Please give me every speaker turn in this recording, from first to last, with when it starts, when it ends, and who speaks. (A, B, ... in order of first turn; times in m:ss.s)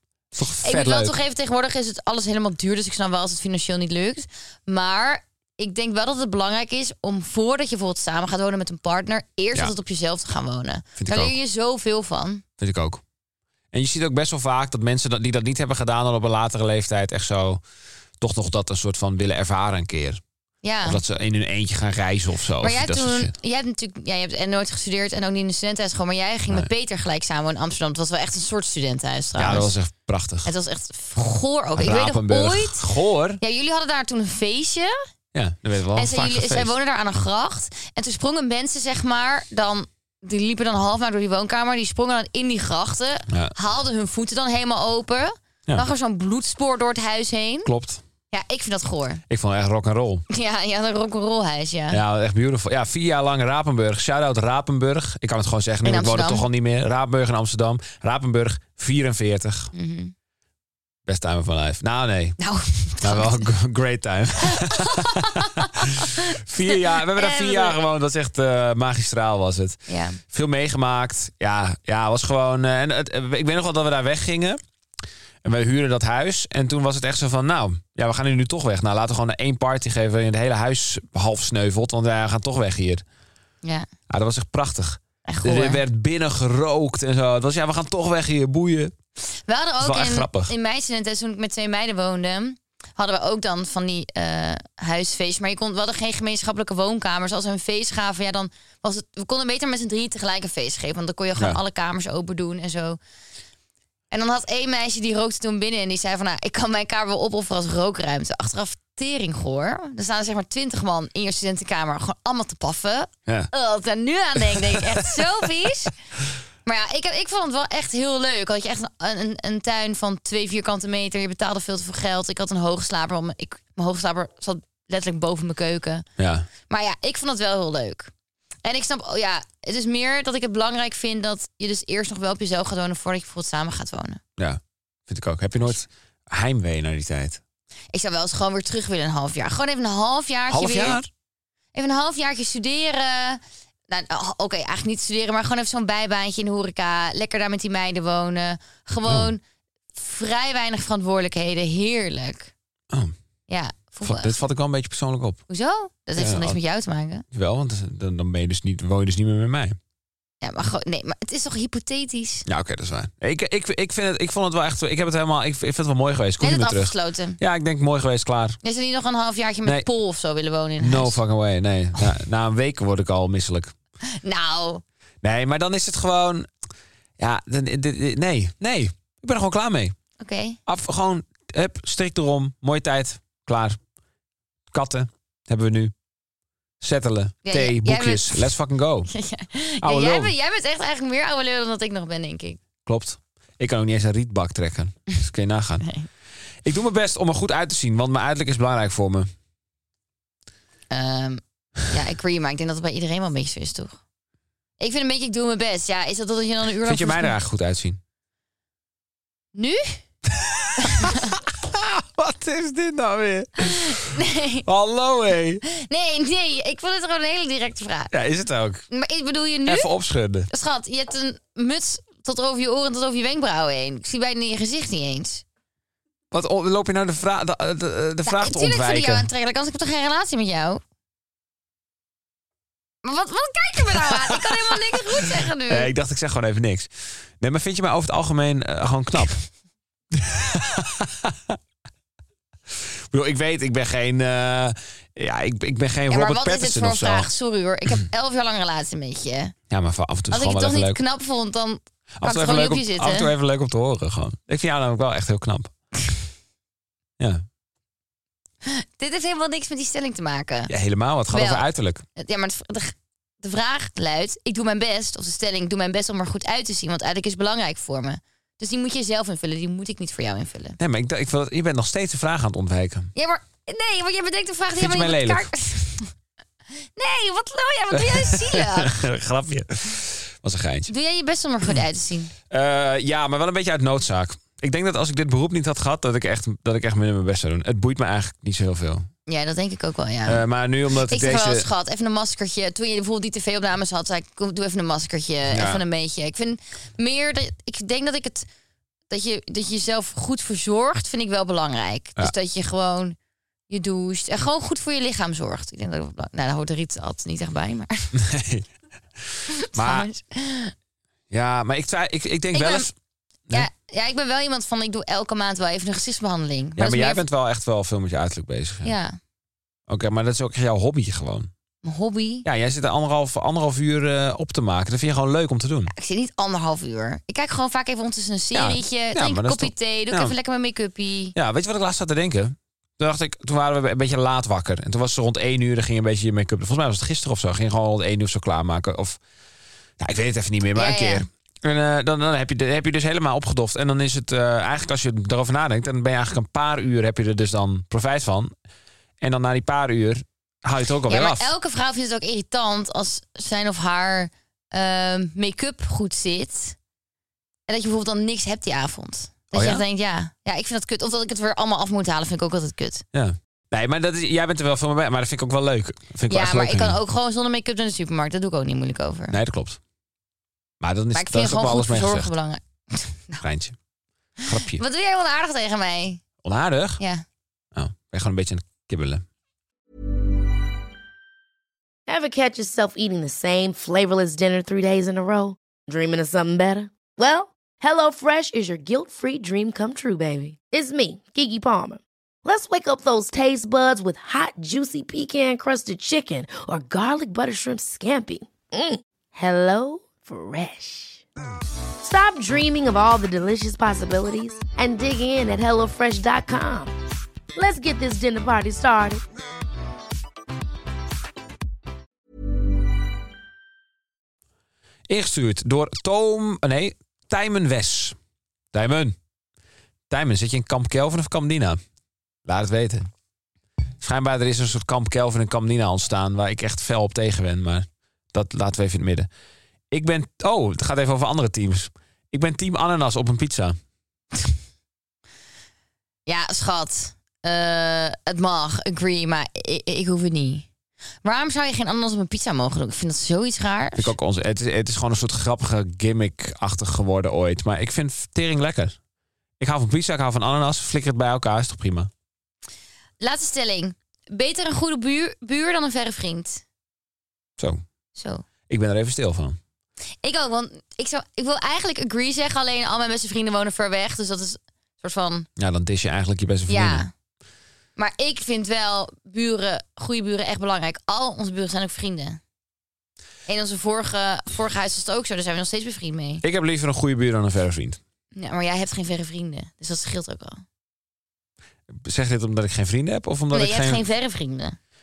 0:00.3-0:01.1 A
0:00.6-0:12.4 B
0:11.0-0:11.3 A
0:12.6-0:13.0 A
0:13.7-0:17.6 A
0:18.2-0:20.2 A
0:20.6-0:21.0 B
0:20.8-0:23.3 A
0:22.6-0:29.7 B
0:29.4-0:30.5 A
0:30.4-0:32.8 B
0:31.7-0:33.4 A
0:33.4-0:34.9 B
0:35.3-0:36.7 A
0:35.9-0:47.7 B
0:43.3-0:43.5 A
0:47.6-0:48.0 A
0:48.3-0:49.2 B
0:49.3-0:50.2 A
0:50.3-0:52.0 B
0:51.9-0:59.7 A
0:55.8-0:56.4 B
0:59.7-1:00.1 B
1:01.0-1:02.4 A
1:02.4-1:03.5 B
1:03.0-1:14.6 A
1:04.5-1:07.8 B
1:09.9-1:10.2 B
1:15.4-1:23.0 A
1:24.1-1:28.9 A
1:25.2-1:25.8 B
1:29.5-1:43.0 B
1:29.8-1:30.5 A
1:44.1-1:55.9 B
1:54.4-1:55.4 A
1:56.6-2:06.1 B
2:06.2-2:06.5 A
2:06.7-2:08.1 B
2:08.6-2:14.2 B
2:14.4-2:17.4 A
2:17.9-2:21.0 B
2:20.5-2:21.1 A
2:21.7-2:29.4 B
2:29.1-2:29.3 A
2:29.9-2:32.5 B
2:33.5-2:34.4 B
2:34.0-2:35.4 A
2:35.5-2:37.2 B
2:36.2-2:36.6 A
2:37.3-2:39.8 A
2:40.4-2:42.5 B
2:42.5-2:48.6 A
2:46.4-2:47.4 B
2:48.6-2:51.2 B
2:50.8-2:53.7 A
2:54.1-2:54.8 B
2:55.2-2:56.5 A
2:57.2-2:59.9 A
3:00.2-3:00.6 B
3:00.6-3:03.8 A
3:04.7-3:05.9 A
3:06.8-3:09.1 A
3:07.4-3:08.5 B
3:09.1-3:12.6 B
3:09.8-3:10.3 A
3:12.8-3:15.8 A
3:16.6-3:19.3 A
3:20.9-3:24.0 B
3:24.8-3:27.3 B
3:26.8-3:28.0 A
3:29.5-3:30.0 B
3:30.3-3:35.6 A
3:30.8-3:31.3 B
3:33.6-3:34.6 B
3:35.6-3:38.1 B
3:38.1-3:38.8 A
3:38.9-3:39.9 B
3:39.6-3:40.5 A
3:40.5-3:45.4 B
3:46.3-3:49.3 A
3:48.2-3:50.8 B
3:53.0-3:55.9 B
3:53.8-3:59.4 A
4:00.1-4:01.6 A
4:02.7-4:07.3 A
4:06.1-4:09.5 B
4:09.7-4:11.0 A
4:10.3-4:13.3 B
4:12.2-4:15.7 A
4:17.2-4:17.4 A
4:18.6-4:20.7 B
4:20.7-4:22.0 A
4:21.3-4:30.8 B
4:30.8-4:33.1 A
4:33.1-4:36.1 B
4:34.8-4:35.5 A
4:37.0-4:39.0 B
4:37.9-4:40.9 A
4:40.9-4:42.3 B
4:42.5-4:49.1 A
4:49.3-4:50.4 B
4:50.2-4:51.7 A
4:51.0-4:58.5 B
4:55.5-4:55.8 A
4:59.1-5:03.2 B
5:03.7-5:08.1 B
5:08.1-5:08.7 A
5:09.3-5:10.1 A
5:09.5-5:10.7 B
5:11.3-5:12.9 A
5:12.5-5:12.9 B
5:13.5-5:17.2 B
5:16.8-5:18.9 A
5:18.8-5:19.2 B
5:19.9-5:21.5 A
5:21.8-5:22.4 B
5:22.4-5:25.9 A
5:25.9-5:31.3 B
5:28.5-5:30.3 A
5:31.3-5:39.2 A
5:40.0-5:48.5 A
5:40.7-5:41.2 B
5:49.2-5:51.5 A
5:51.1-5:56.8 B
5:57.7-6:03.0 B
5:59.5-5:59.8 A
6:03.1-6:07.0 A
6:06.3-6:09.4 B
6:09.3-6:09.8 A
6:10.8-6:12.3 A
6:11.1-6:13.4 B
6:13.4-6:13.8 A
6:14.4-6:16.2 B
6:14.4-6:14.8 A
6:16.4-6:17.0 A
6:17.0-6:17.2 B
6:17.7-6:19.2 A
6:22.1-6:41.2 C
6:42.0-6:46.9 C
6:47.6-6:49.2 C
6:55.1-6:58.2 A
6:58.7-6:59.2 A
7:00.1-7:01.8 A
7:02.4-7:03.1 A
7:04.0-7:09.3 A
7:09.9-7:13.8 A
7:16.2-7:20.6 B
7:21.2-7:24.2 B
7:24.0-7:29.0 A
7:29.6-7:32.1 A
7:33.2-7:36.6 B
7:38.2-7:38.4 B
7:38.7-7:39.6 A
7:40.2-7:45.5 B
7:45.6-7:47.0 A
7:46.7-7:47.1 B
7:48.0-7:52.4 B
7:53.5-7:56.4 B
7:56.4-7:58.0 A
7:58.3-8:00.6 B
8:01.9-8:04.0 A
8:03.5-8:04.8 B